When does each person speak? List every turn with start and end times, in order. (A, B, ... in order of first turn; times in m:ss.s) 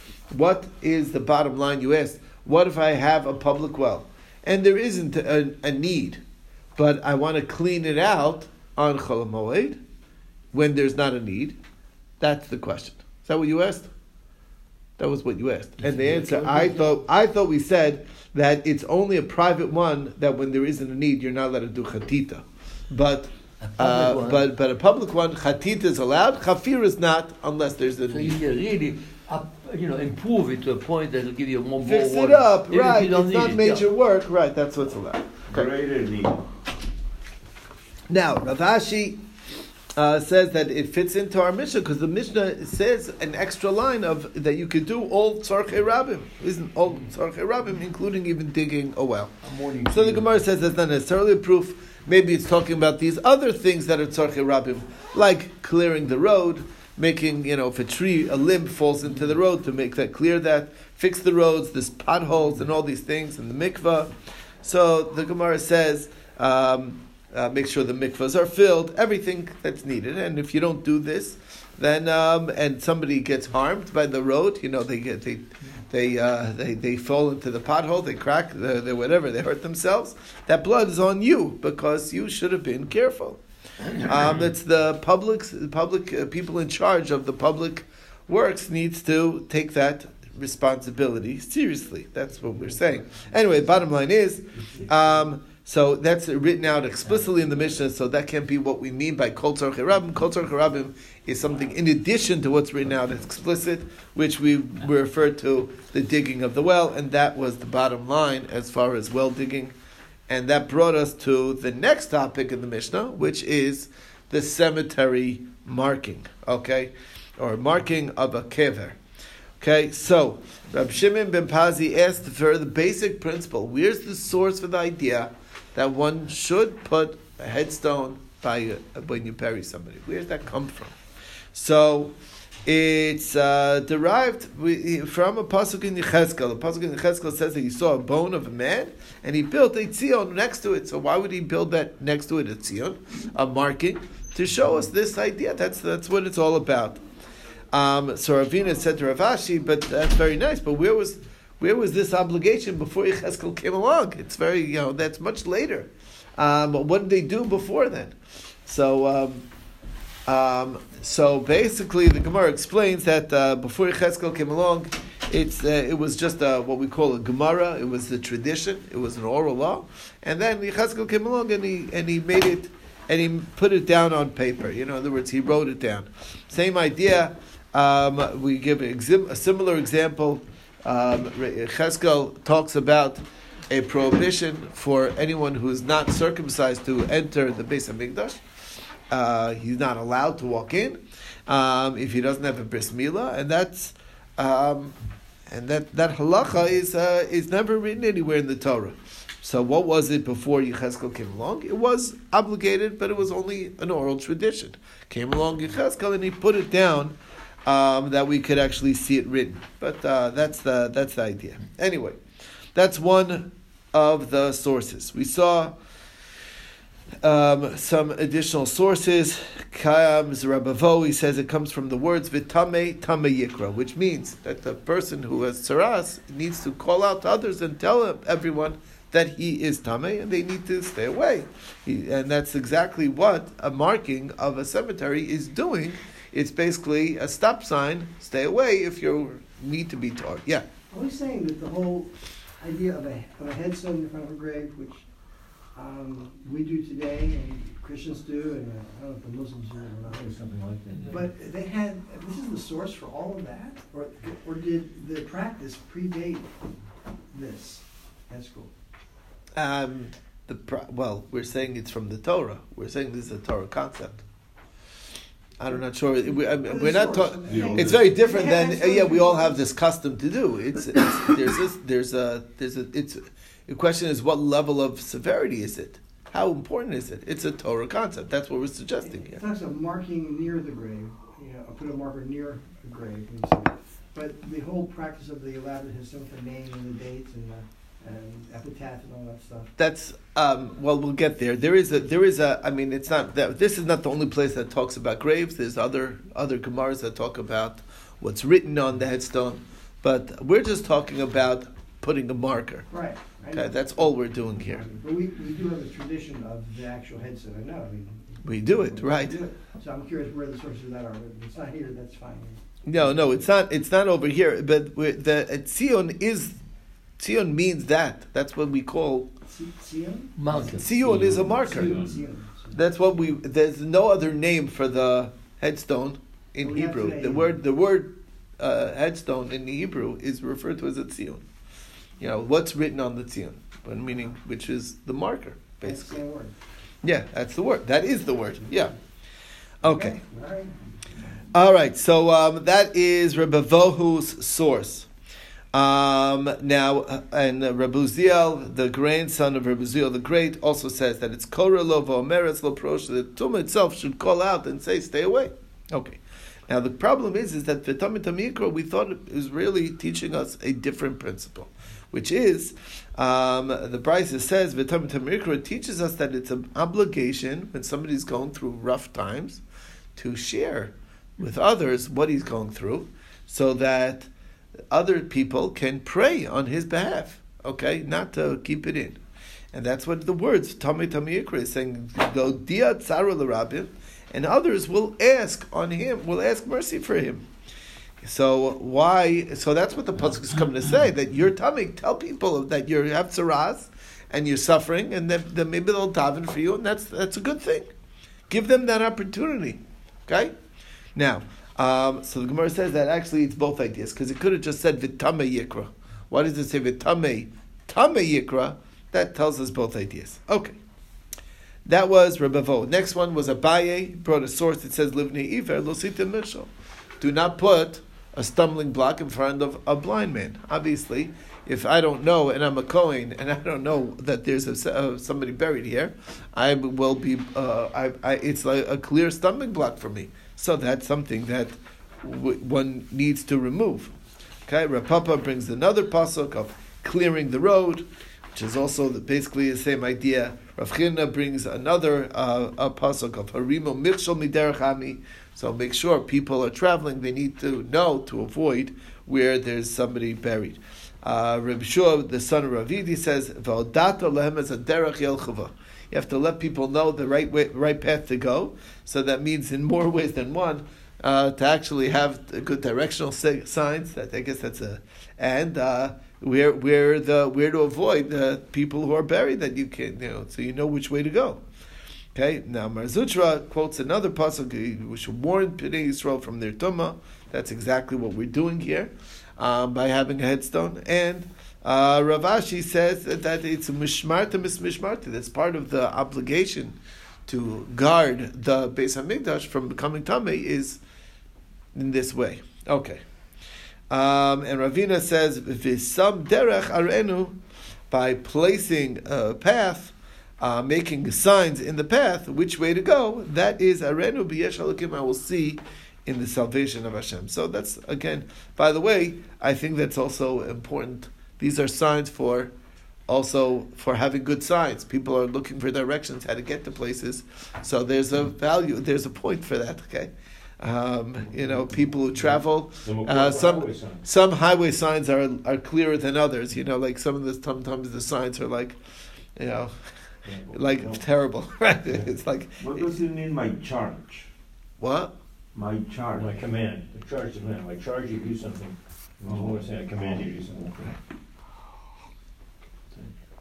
0:00.3-0:06.2 A
0:06.8-0:09.8 A
0:10.5-0:11.6 A
0:12.2-0:13.9 A
0:15.0-0:28.4 A
0:15.8-0:17.0 B
0:23.6-0:24.5 B
0:28.1-0:33.8 B
0:31.8-0:35.7 A
0:35.5-0:36.5 C
0:38.1-0:39.2 A
0:39.9-1:04.1 A
0:49.4-0:50.2 B
1:04.6-1:23.4 A
1:23.9-1:49.7 A
1:50.3-1:59.0 A
1:59.6-2:10.9 A
2:11.5-2:27.0 A
2:27.7-2:38.1 A
2:38.6-2:39.5 A
2:40.3-3:08.4 A
3:09.1-3:15.0 A
3:15.5-3:27.1 A
3:27.6-3:32.2 A
3:32.7-3:35.7 A
3:37.2-4:00.6 A
4:00.9-4:05.0 D
4:05.7-4:10.4 D
4:10.1-4:11.2 E
4:11.0-4:16.5 D
4:17.3-4:18.7 D
4:19.6-4:24.2 A
4:25.6-4:39.4 A
4:26.3-4:29.6 D
4:27.5-4:28.0 C
4:39.0-4:49.7 D
4:49.8-5:02.9 A
5:02.9-5:13.2 D
5:03.5-5:04.8 A
5:08.4-5:09.4 A
5:12.8-5:16.6 A
5:17.2-5:19.3 A
5:19.5-5:20.6 D
5:20.4-5:20.9 B
5:20.6-5:22.1 A
5:21.0-5:22.1 E
5:21.4-5:22.8 D
5:22.7-5:31.4 A
5:26.6-5:27.5 D
5:32.2-5:36.2 A
5:35.8-5:36.5 D
5:37.0-5:38.9 A
5:39.8-5:40.2 A
5:39.8-5:41.2 D
5:41.5-5:45.1 A
5:45.7-6:09.6 A
6:10.2-6:14.3 A
6:14.9-6:19.2 A
6:19.7-6:27.5 A
6:28.2-6:37.9 A
6:38.5-6:40.5 A
6:41.1-6:50.8 A
6:51.8-6:56.7 A
6:57.2-7:14.1 A
7:14.6-7:51.6 A
7:52.3-8:11.0 A
8:11.9-8:13.2 A
8:14.1-8:17.6 A
8:18.1-8:32.7 A
8:33.3-8:49.0 A
8:43.0-8:44.2 E
8:49.6-8:49.9 A
8:50.4-8:51.2 E
8:50.7-8:53.2 A
8:52.8-8:54.5 C
8:55.0-8:55.3 A
8:55.7-8:56.6 C
8:56.3-9:01.2 E
8:59.5-9:00.8 C